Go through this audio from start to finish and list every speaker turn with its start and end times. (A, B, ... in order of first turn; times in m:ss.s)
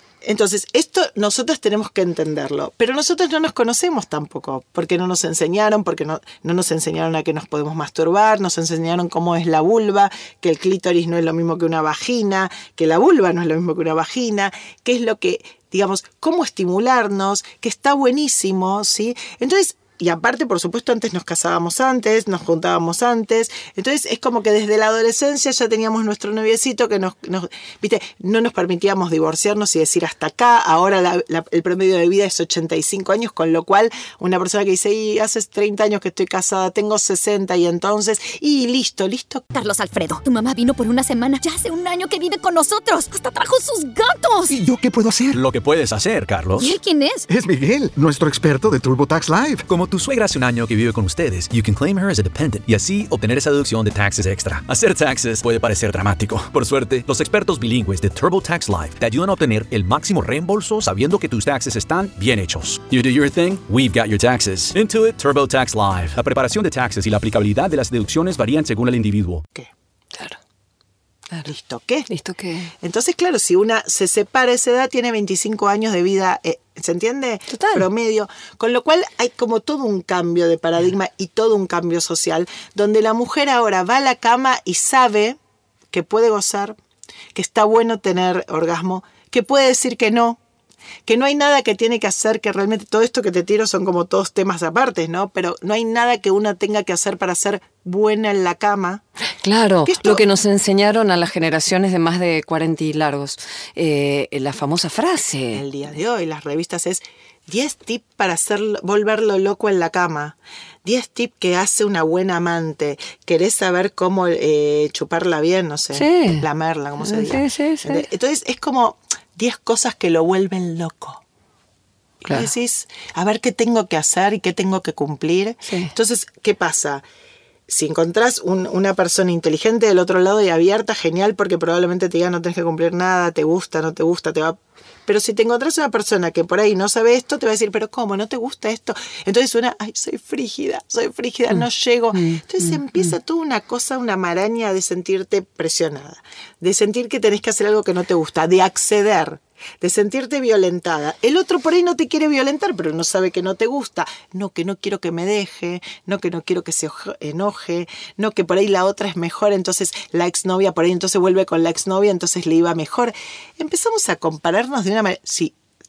0:00.2-0:39.5 A
0:39.5-0:44.6 B
0:44.5-0:45.4 C
0:45.3-0:46.7 D
0:46.6-0:47.3 B
0:47.3-0:49.6 C
0:49.7-1:09.4 D
1:10.1-1:10.4 E
1:11.4-1:12.1 A
1:12.1-1:12.7 E
1:12.8-1:25.4 A
1:17.5-1:17.9 E
1:25.9-1:26.8 A
1:27.3-1:30.4 A
1:31.1-1:39.0 A
1:39.4-1:45.7 E
1:39.9-1:40.3 A
1:45.5-2:01.2 A
1:56.0-1:56.4 E
1:57.0-1:58.0 E
2:02.3-2:07.0 A
2:05.6-2:05.9 E
2:07.7-2:45.6 A
2:22.1-2:22.7 E